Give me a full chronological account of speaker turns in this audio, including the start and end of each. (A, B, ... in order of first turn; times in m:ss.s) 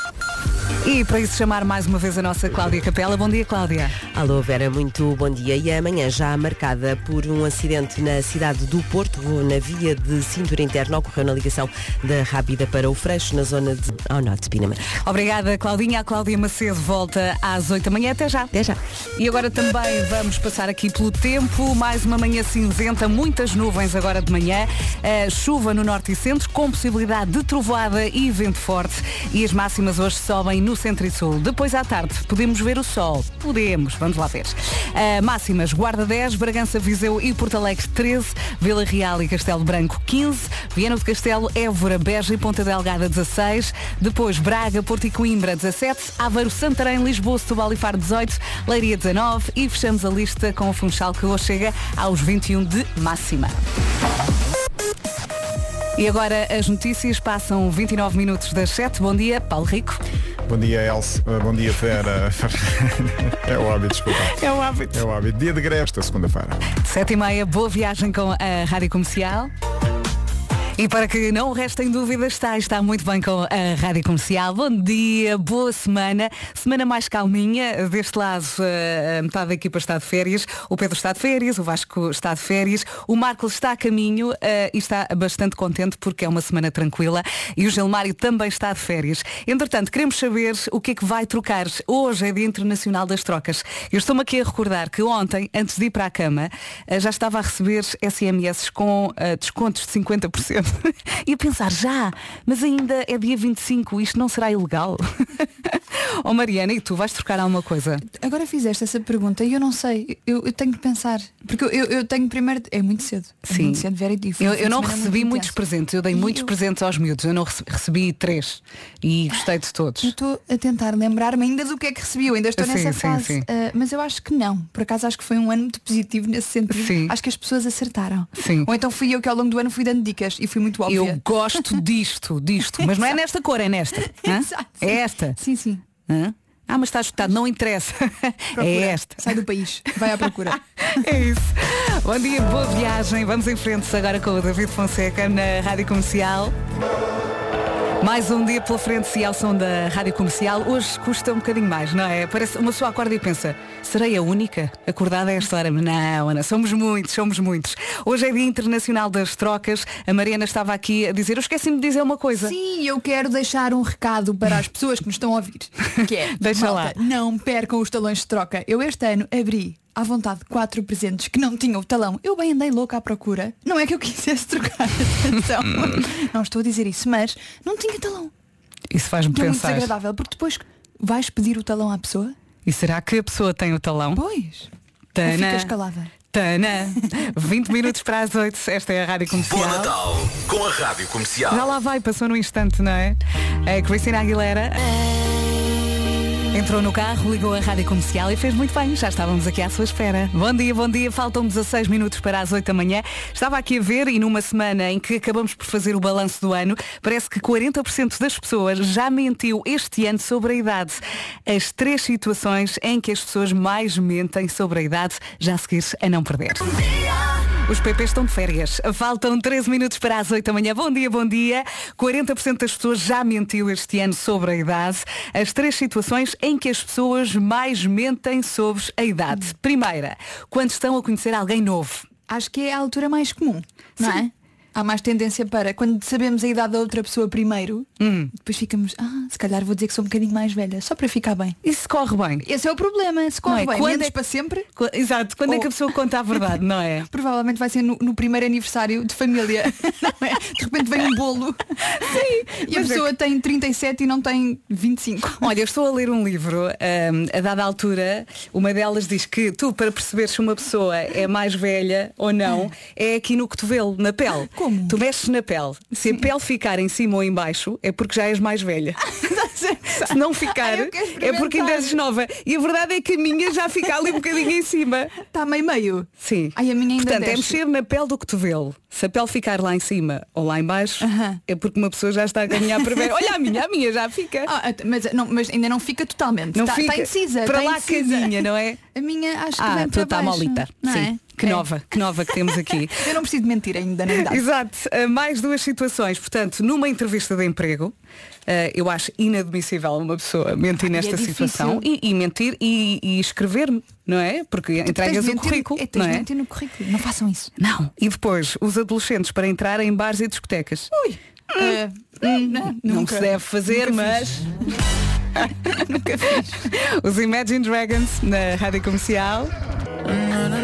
0:00.8-0:04.0 A
0:04.1-0:14.9 B
0:15.0-0:18.5 A
0:18.5-0:18.8 B
0:19.2-0:53.6 A
0:56.0-1:00.0 A
1:00.4-1:04.4 C
1:04.3-1:05.0 A
1:04.9-1:06.6 C
1:06.8-1:09.5 A
1:10.8-1:48.0 A
1:48.1-1:55.6 D
1:53.5-1:53.8 A
1:54.4-2:00.1 A
1:56.1-1:56.5 D
2:00.0-2:11.8 D
2:02.6-2:03.4 A
2:06.7-2:07.1 A
2:08.4-2:08.7 A
2:10.8-2:15.4 A
2:12.8-2:13.1 D
2:14.1-2:15.8 D
2:16.1-2:19.4 A
2:18.6-2:21.1 D
2:20.8-2:26.6 A
2:28.0-2:42.5 A
2:42.4-2:58.3 D
2:46.3-2:47.0 A
2:58.9-2:59.9 A
2:59.3-3:02.4 D
3:02.6-3:04.2 A
3:04.1-3:04.7 D
3:05.1-3:05.7 A
3:05.2-3:06.1 D
3:06.3-3:09.9 A
3:09.4-3:11.7 E
3:11.5-3:15.1 A
3:16.5-3:36.9 A
3:37.6-3:52.0 A
3:52.3-4:01.6 D
3:58.0-3:58.3 A
4:01.6-4:02.4 A
4:02.4-4:04.7 D
4:03.4-4:04.2 A
4:04.8-4:07.1 A
4:07.1-4:15.5 D
4:12.0-4:13.1 A
4:15.4-4:29.0 A
4:24.4-4:25.0 D
4:29.2-4:32.0 D
4:30.0-4:35.1 A
4:35.2-4:37.6 D
4:36.2-4:44.5 A
4:41.0-4:41.4 D
4:44.4-4:51.6 D
4:46.5-4:48.8 A
4:49.6-4:53.0 A
4:52.3-4:54.4 D
4:54.2-4:57.9 A
4:58.5-5:06.3 A
5:00.8-5:01.8 D
5:04.8-5:07.5 D
5:07.6-5:10.9 A
5:10.9-5:14.5 D
5:11.5-5:14.6 A
5:15.4-5:19.5 A
5:15.7-5:16.6 D